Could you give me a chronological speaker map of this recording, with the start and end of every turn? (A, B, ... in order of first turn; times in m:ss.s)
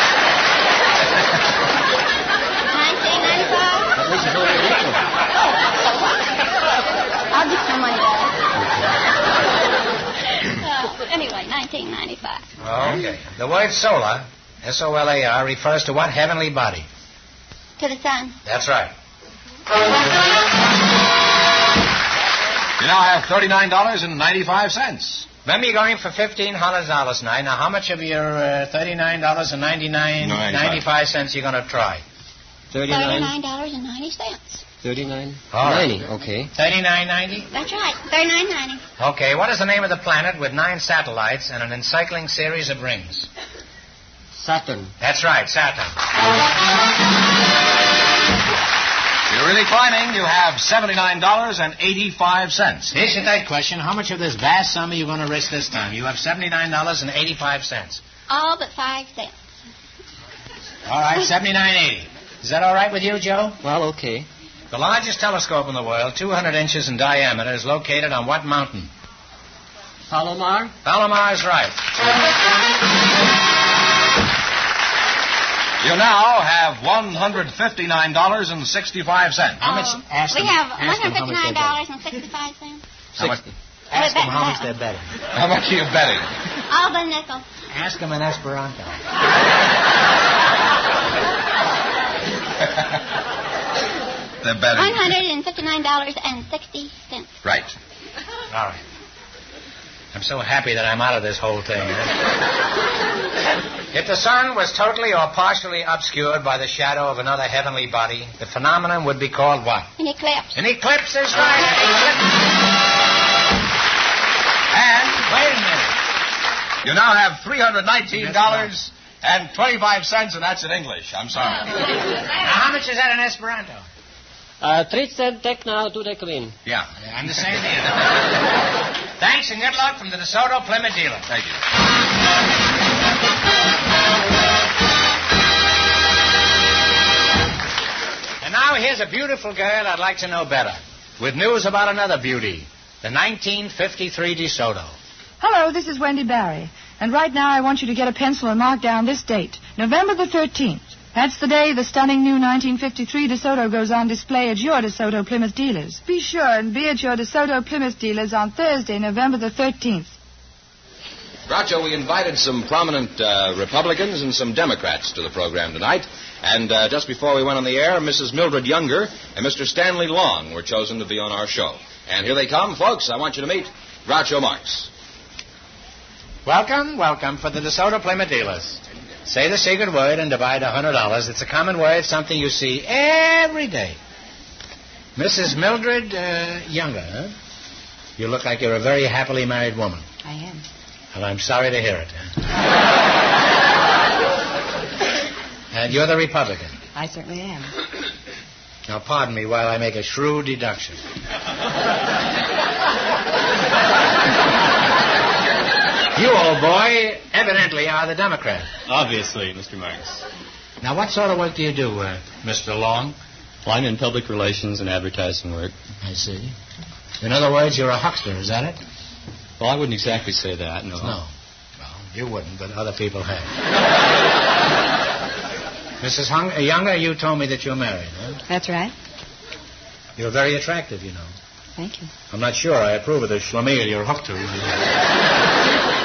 0:02.7-0:04.0 A
0:04.0-0:05.0 B
0:05.8-0:06.2 A
0:07.3-0:08.4 A
0:10.4-0:12.4 A
0:12.6-0:16.9 C
0:17.8-0:18.4 A
0:18.4-0:18.9 C
0:22.8-0:25.2 D
0:25.4-0:32.0 C
0:30.2-0:30.8 D
0:32.7-0:33.3 B
0:32.9-0:34.6 A
0:34.8-0:36.5 B
0:35.5-0:35.9 C
0:36.5-0:37.5 C
0:37.5-0:38.8 A
0:39.0-0:43.3 C
0:44.3-0:44.9 B
0:45.0-0:46.0 C
0:49.3-0:52.9 D
0:52.9-0:58.0 C
0:58.3-0:59.3 A
1:00.8-1:03.6 C
1:03.6-1:04.3 B
1:04.7-1:08.9 C
1:10.1-1:10.7 B
1:10.8-1:11.8 C
1:15.8-1:19.6 D
1:19.6-1:21.8 C
1:19.6-1:22.8 A
1:23.2-1:25.0 C
1:23.9-1:24.6 A
1:25.3-1:26.3 D
1:26.7-1:27.4 A
1:27.7-1:29.0 C
1:34.4-1:35.1 D
1:34.7-1:37.3 A
1:37.4-1:37.7 D
1:38.5-1:38.8 C
1:40.1-1:42.2 C
1:43.9-1:49.9 C
1:50.0-1:50.5 A
1:50.5-1:52.4 C
1:54.7-1:55.2 D
1:55.1-1:56.0 C
1:56.8-2:01.9 D
1:58.1-1:58.7 C
2:02.4-2:03.9 C
2:04.6-2:06.5 B
2:07.0-2:08.2 C
2:09.2-2:11.3 C
2:11.3-2:11.6 D
2:18.4-2:25.0 C
2:25.4-2:40.1 E
2:41.5-2:54.9 D
2:56.4-3:04.0 C
3:05.2-3:07.3 C
3:08.2-3:10.0 C
3:10.2-3:10.6 F
3:11.1-3:12.4 C
3:15.7-3:16.8 C
3:16.9-3:17.7 F
3:18.9-3:21.0 C
3:26.1-3:28.7 C
3:28.9-3:30.2 G
3:30.8-3:33.2 C
3:33.6-3:35.7 G
3:36.0-3:36.6 C
3:37.2-3:38.8 C
3:39.6-3:41.2 G
3:41.0-3:43.5 C
3:46.0-3:48.4 C
3:48.5-3:48.9 F
3:50.2-3:51.3 C
3:51.8-3:52.1 F
3:52.3-3:54.8 C